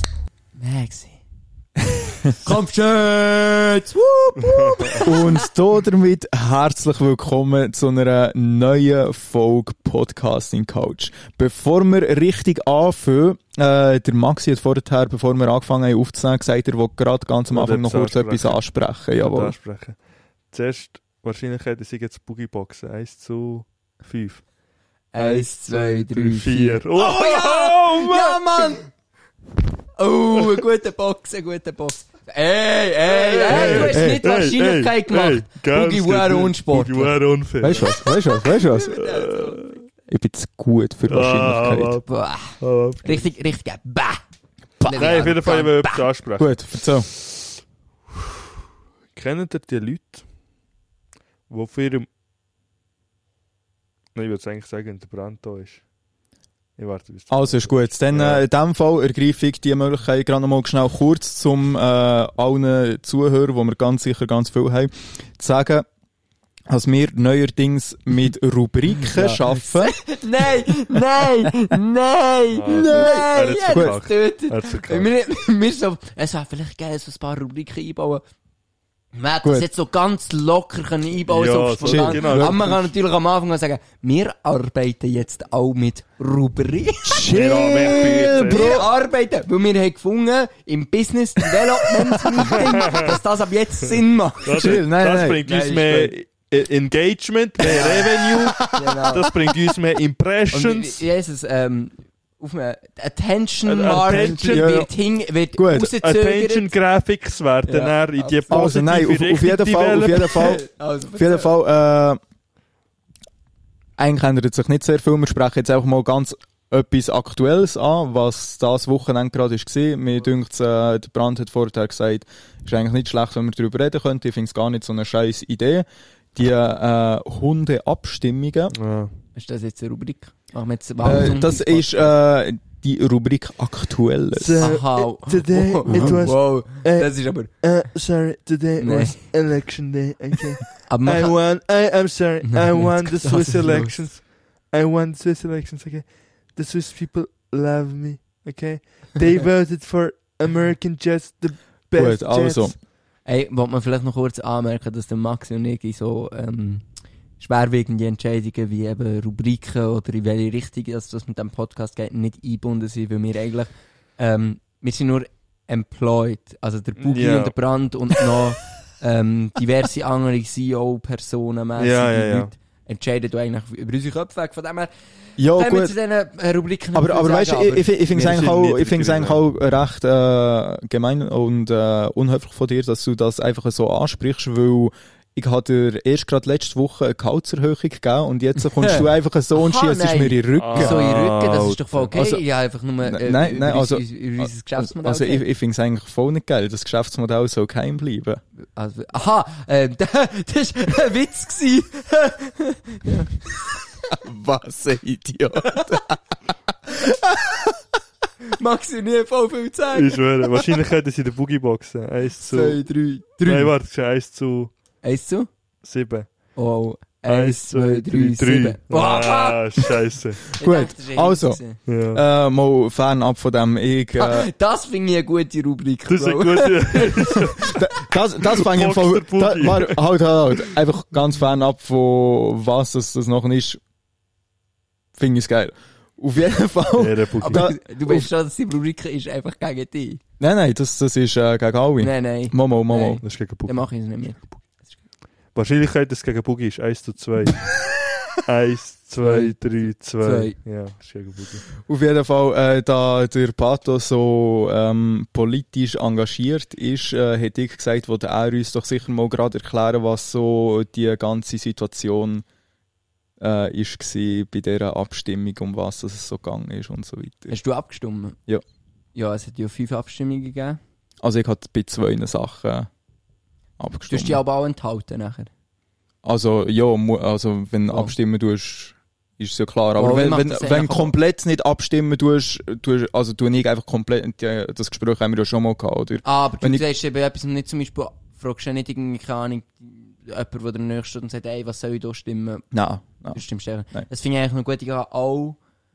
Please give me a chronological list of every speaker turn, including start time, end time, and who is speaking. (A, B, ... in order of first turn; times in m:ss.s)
0:00.6-0:01.2 A
0:02.3-0:05.5 A
0:04.4-0:05.0 B
0:05.0-0:19.5 C
0:17.5-0:20.0 B
0:20.5-0:24.4 B
0:25.1-0:28.9 A
0:25.2-0:28.7 B
0:30.0-0:37.2 A
0:33.1-0:38.0 B
0:33.5-0:34.0 C
0:37.6-0:39.0 C
0:38.5-0:39.8 A
0:38.9-0:39.8 B
0:40.1-0:42.0 C
0:41.1-0:42.0 B
0:42.0-0:44.2 A
0:42.6-0:43.3 B
0:44.8-0:46.1 A
0:44.9-0:47.5 B
0:46.4-0:47.1 C
0:49.1-0:50.2 B
0:51.5-0:52.1 B
0:54.1-0:55.8 B
0:56.8-0:58.4 B
0:57.3-1:05.8 C
1:06.7-1:09.9 C
1:09.1-1:18.2 A
1:11.2-1:11.5 C
1:12.5-1:15.1 B
1:12.7-1:14.0 C
1:19.1-1:34.8 A
1:21.3-1:22.9 B
1:21.8-1:22.6 C
1:27.1-1:28.9 C
1:27.2-1:28.8 B
1:32.5-1:33.2 B
1:34.4-1:41.0 B
1:34.5-1:35.4 C
1:35.4-1:36.1 A
1:37.6-1:39.3 A
1:38.4-1:39.0 C
1:40.5-1:46.7 A
1:43.6-1:44.8 B
1:43.9-1:44.9 C
1:45.5-1:45.9 C
1:46.0-1:50.5 B
1:47.6-1:48.7 A
1:48.5-1:50.6 C
1:50.2-1:51.5 A
1:51.2-1:52.2 C
1:54.0-2:08.7 C
2:08.7-2:09.2 B
2:09.3-2:12.1 A
2:11.0-2:14.6 C
2:14.4-2:32.8 B
2:14.6-2:17.6 A
2:15.9-2:16.2 C
2:18.8-2:19.3 A
2:20.8-2:21.7 A
2:22.4-2:24.1 A
2:31.9-2:32.8 C
2:33.2-2:36.8 A
2:37.4-2:58.5 A
2:47.0-2:47.6 B
2:51.8-2:52.5 B
2:55.4-2:55.9 C
2:56.9-3:11.1 C
2:58.1-2:59.4 B
3:08.8-3:15.4 A
3:10.6-3:12.1 B
3:12.1-3:12.4 C
3:13.0-3:18.4 C
3:18.6-3:23.7 A
3:24.2-3:26.2 C
3:26.9-3:27.7 C
3:28.5-3:30.6 A
3:29.9-3:32.9 B
3:32.4-3:33.7 A
3:33.4-3:34.7 B
3:35.0-3:35.5 A
3:35.8-3:36.6 B
3:36.5-3:39.9 A
3:37.3-3:40.5 B
3:40.6-3:41.8 A
3:40.6-3:44.5 C
3:41.8-3:42.2 B
3:44.2-3:47.7 A
3:46.1-3:47.8 B
3:47.7-3:53.8 C
3:48.4-3:50.0 B
3:55.1-3:58.3 C
3:57.0-3:57.6 B
3:57.4-4:00.2 A
4:00.4-4:03.2 C
4:02.0-4:05.0 A
4:03.2-4:04.5 B
4:05.5-4:07.7 B
4:08.4-4:11.7 B
4:09.2-4:10.6 A
4:11.8-4:22.4 C
4:23.4-4:27.6 C
4:27.5-4:28.4 A
4:29.1-4:30.8 A
4:31.2-4:32.9 C
4:33.8-4:34.4 C
4:34.1-4:35.5 A
4:36.2-4:46.8 C
4:37.9-4:38.1 A
4:39.9-4:41.1 A
4:46.2-4:52.7 A
4:52.7-4:53.4 C
4:53.3-4:55.6 A